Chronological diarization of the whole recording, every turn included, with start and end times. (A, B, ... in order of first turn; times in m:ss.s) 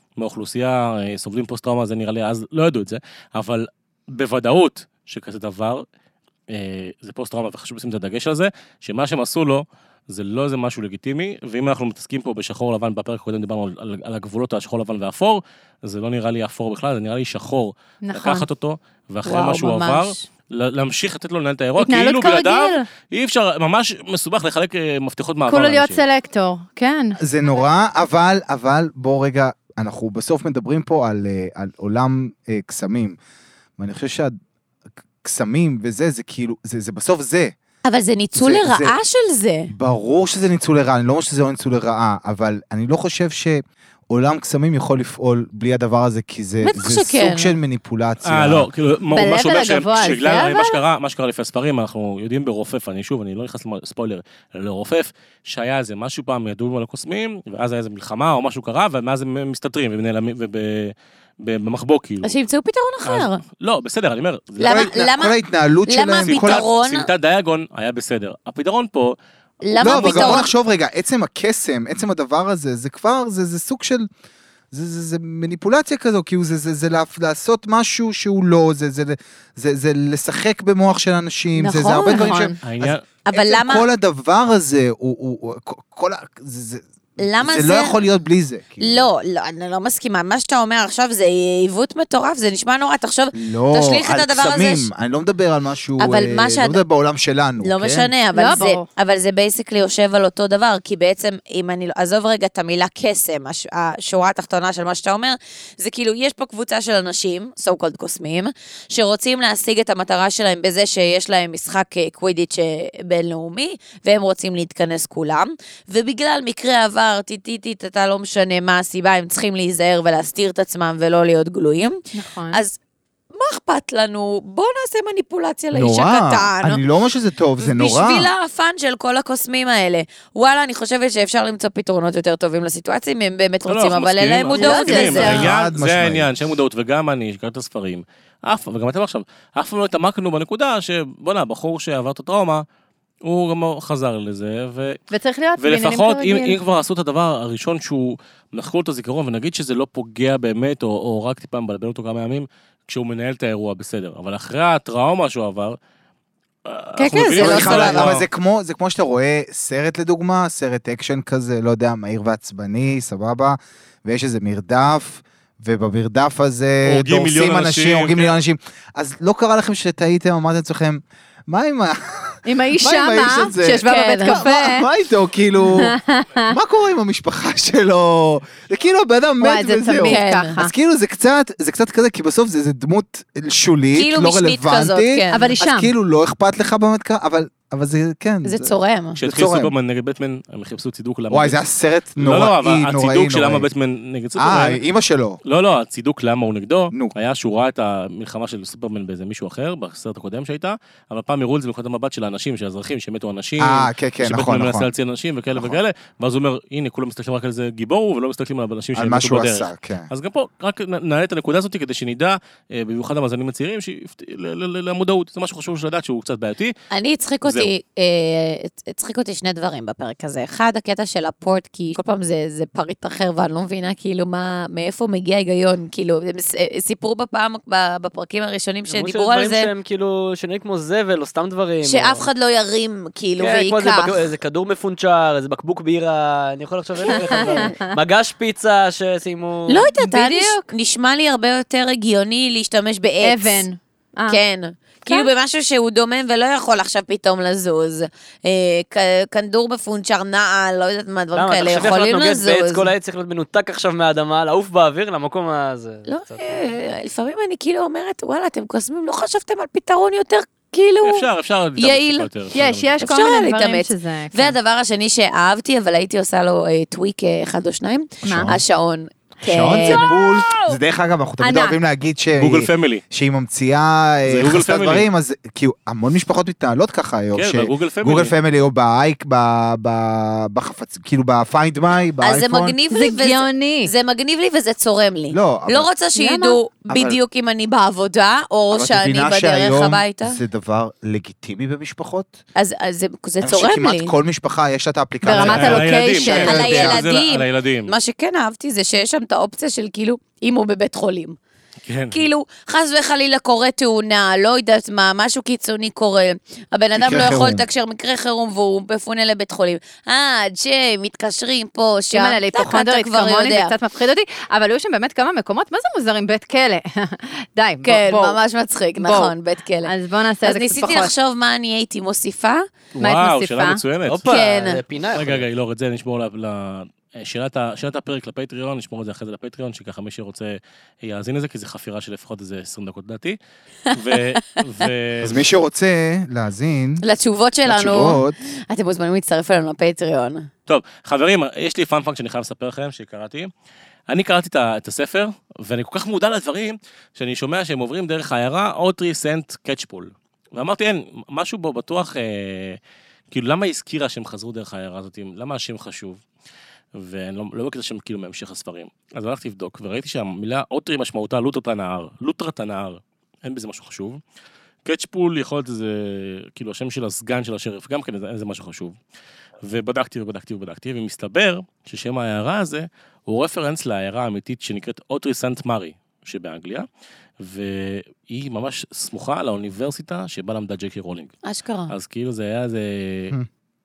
0:00.2-0:05.9 A
0:06.5-0:26.0 A
0:18.0-0:18.5 B
0:19.3-0:20.2 C
0:21.8-0:22.8 B
0:25.5-0:27.2 B
0:27.2-0:33.2 D
0:33.8-0:34.4 D
0:35.2-0:37.6 D
0:37.8-0:39.7 C
0:38.4-0:39.0 D
0:39.7-0:48.7 D
0:46.6-0:47.6 C
0:48.2-1:02.3 A
0:49.1-0:50.8 B
1:02.2-1:03.4 C
1:03.0-1:04.9 A
1:04.6-1:05.4 C
1:04.6-1:06.6 D
1:05.9-1:07.1 C
1:06.2-1:09.2 A
1:09.6-1:10.5 C
1:09.8-1:10.5 A
1:09.8-1:14.1 D
1:14.7-1:29.1 D
1:21.6-1:22.4 C
1:22.1-1:22.6 B
1:22.6-1:23.0 A
1:23.3-1:23.9 C
1:27.2-1:28.0 C
1:28.8-1:34.9 C
1:33.3-1:38.1 D
1:36.0-1:36.8 C
1:37.6-2:02.8 C
1:38.3-1:38.8 B
2:02.1-2:02.6 B
2:03.3-2:06.8 C
2:05.7-2:08.3 D
2:07.6-2:15.5 C
2:13.6-2:22.6 A
2:14.5-2:15.5 B
2:15.1-2:16.3 D
2:23.2-2:25.0 A
2:25.1-2:26.6 B
2:25.6-2:35.8 A
2:36.7-2:38.3 A
2:37.0-2:38.2 C
2:37.4-2:56.0 D
2:46.8-2:48.3 A
2:52.5-2:54.9 B
2:53.8-2:54.4 C
2:55.6-2:56.6 B
2:56.5-3:09.7 D
2:59.4-3:00.7 B
3:00.0-3:00.6 C
3:03.9-3:05.5 C
3:05.3-3:05.9 B
3:08.4-3:09.2 C
3:09.2-3:11.6 A
3:11.3-3:13.7 D
3:12.2-3:14.8 A
3:14.4-3:15.4 D
3:15.4-3:36.8 A
3:23.6-3:24.9 D
3:29.0-3:30.1 D
3:36.9-3:49.7 C
3:37.4-3:37.7 A
3:48.9-3:52.3 E
3:51.8-3:54.2 C
3:53.4-3:59.9 E
3:57.1-3:57.7 C
3:57.1-3:57.8 B
3:59.7-4:03.7 C
4:00.0-4:00.7 B
4:03.2-4:04.4 B
4:04.3-4:12.9 C
4:11.3-4:16.6 E
4:16.1-4:22.3 C
4:21.0-4:23.0 A
4:22.5-4:24.6 B
4:23.0-4:30.2 C
4:28.2-4:28.6 D
4:28.2-4:28.6 B
4:29.4-4:42.8 D
4:29.6-4:30.8 B
4:31.4-4:31.8 B
4:32.4-4:33.0 A
4:34.3-4:35.1 A
4:37.4-4:38.4 A
4:42.2-4:50.4 C
4:42.9-4:43.9 B
4:45.3-4:45.9 D
4:46.2-4:46.6 B
4:46.9-4:47.2 D
4:48.7-4:52.4 D
4:52.6-4:54.1 C
4:53.4-4:57.0 D
4:55.2-4:56.7 B
4:55.4-4:57.9 A
4:56.3-5:01.4 C
5:01.9-5:02.3 A
5:02.1-5:13.7 C
5:07.0-5:07.6 D
5:12.1-5:18.4 B
5:17.8-5:22.6 C
5:19.0-5:19.3 B
5:19.8-5:21.1 B
5:23.0-5:24.3 A
5:23.0-5:23.8 B
5:24.1-5:25.5 E
5:24.2-5:24.8 C
5:25.1-5:33.4 A
5:33.9-5:35.4 A
5:35.2-5:37.0 D
5:37.0-5:40.5 C
5:37.7-5:38.4 D
5:40.7-5:43.5 A
5:44.1-5:52.8 A
5:53.3-5:56.2 A
5:57.0-6:04.2 A
6:04.8-6:09.0 A
6:09.6-6:16.9 A
6:17.4-6:21.3 A
6:21.4-6:21.9 C
6:21.9-6:23.4 A